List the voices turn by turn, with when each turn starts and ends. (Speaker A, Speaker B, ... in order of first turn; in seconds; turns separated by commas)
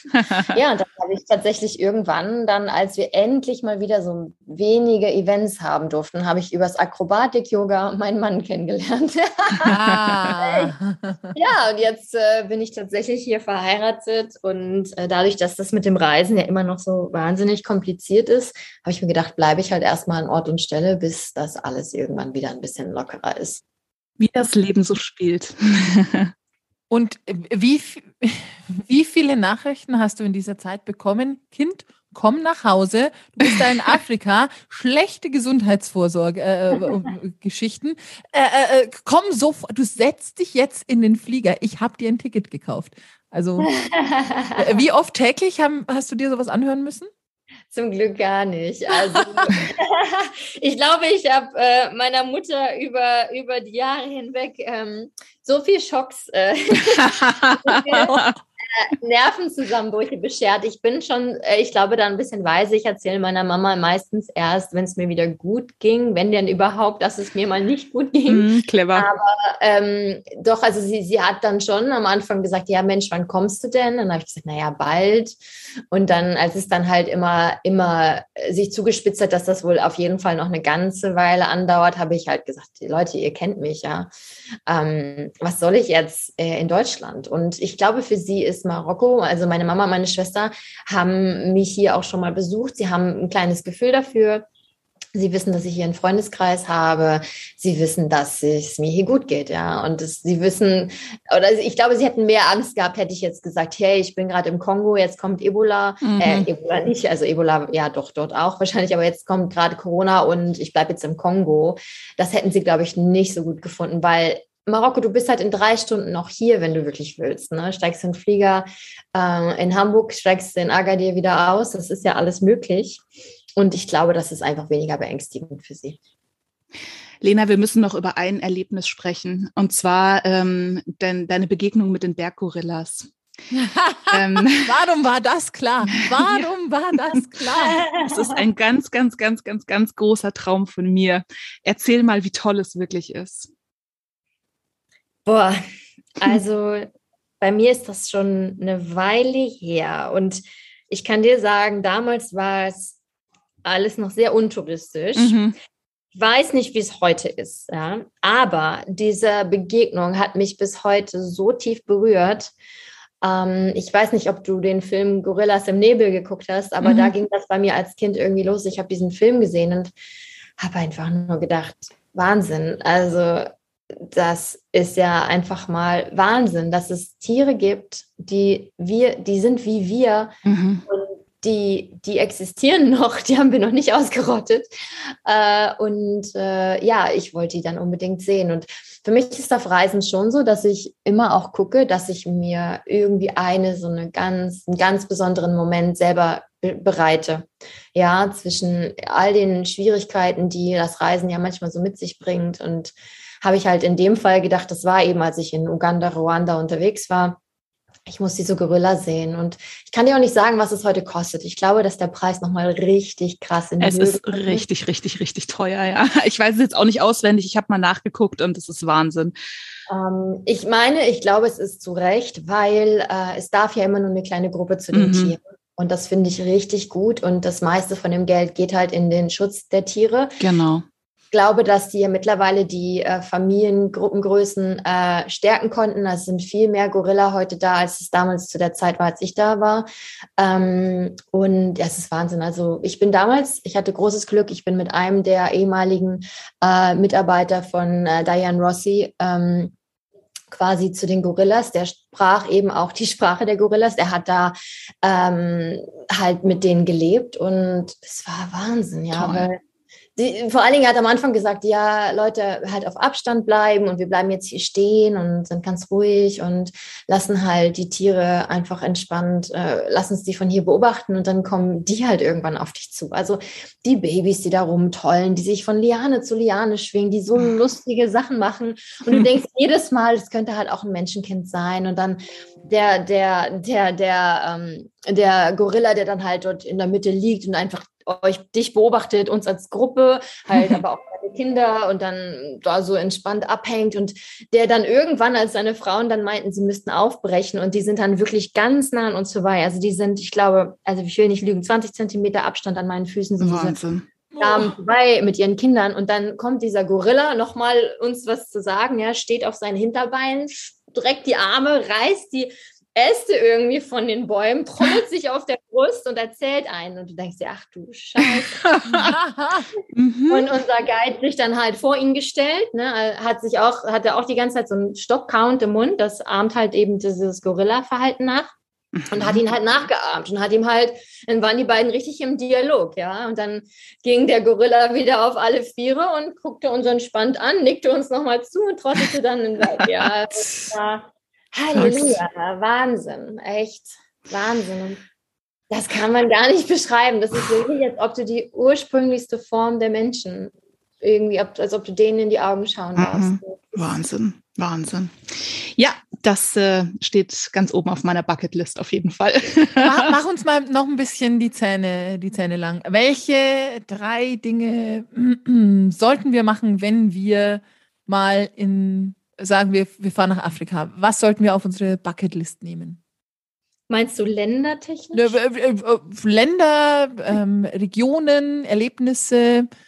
Speaker A: 0.1-0.5, Speaker B: 0.5-9.7, Speaker C: 9.7-11.4, Speaker A: 9.7-10.2, Speaker B: 10.3-10.7, Speaker B: 11.3-23.6, Speaker A: 24.2-26.3, Speaker C: 26.9-43.7, Speaker B: 43.7-44.6, Speaker C: 44.6-47.1, Speaker B: 47.7-58.2, Speaker A: 57.2-58.3, Speaker B: 58.7-75.4, Speaker A: 68.3-69.1, Speaker B: 75.9-84.1, Speaker B: 84.7-94.5, Speaker B: 95.1-123.0, Speaker A: 106.0-106.5, Speaker B: 123.6-126.0, Speaker A: 127.2-133.1, Speaker C: 133.5-137.8, Speaker A: 134.1-134.7, Speaker A: 136.1-136.5, Speaker B: 137.6-138.1, Speaker A: 138.0-143.5, Speaker B: 145.3-145.6, Speaker B: 146.2-153.0, Speaker B: 153.7-155.4, Speaker A: 155.2-155.6, Speaker B: 156.2-162.5, Speaker B: 163.2-169.9, Speaker A: 166.8-167.1, Speaker B: 170.6-180.4, Speaker A: 180.5-180.8, Speaker B: 180.9-184.7, Speaker B: 185.2-207.4, Speaker B: 208.1-214.7, Speaker A: 213.8-219.3, Speaker B: 219.9-230.4, Speaker A: 224.9-225.3, Speaker A: 230.4-230.8, Speaker B: 231.3-239.9, Speaker B: 240.4-249.7, Speaker B: 250.5-259.6, Speaker A: 259.1-259.5, Speaker B: 260.2-303.8, Speaker A: 303.4-304.8, Speaker B: 304.4-318.6, Speaker A: 318.6-319.1, Speaker C: 318.9-319.7, Speaker A: 319.9-320.5, Speaker B: 320.3-328.5, Speaker A: 329.0-329.4, Speaker B: 329.1-345.0, Speaker A: 341.8-342.2, Speaker B: 345.7-353.8, Speaker A: 353.0-360.1, Speaker C: 359.8-373.0, Speaker B: 373.9-375.4, Speaker C: 375.1-379.7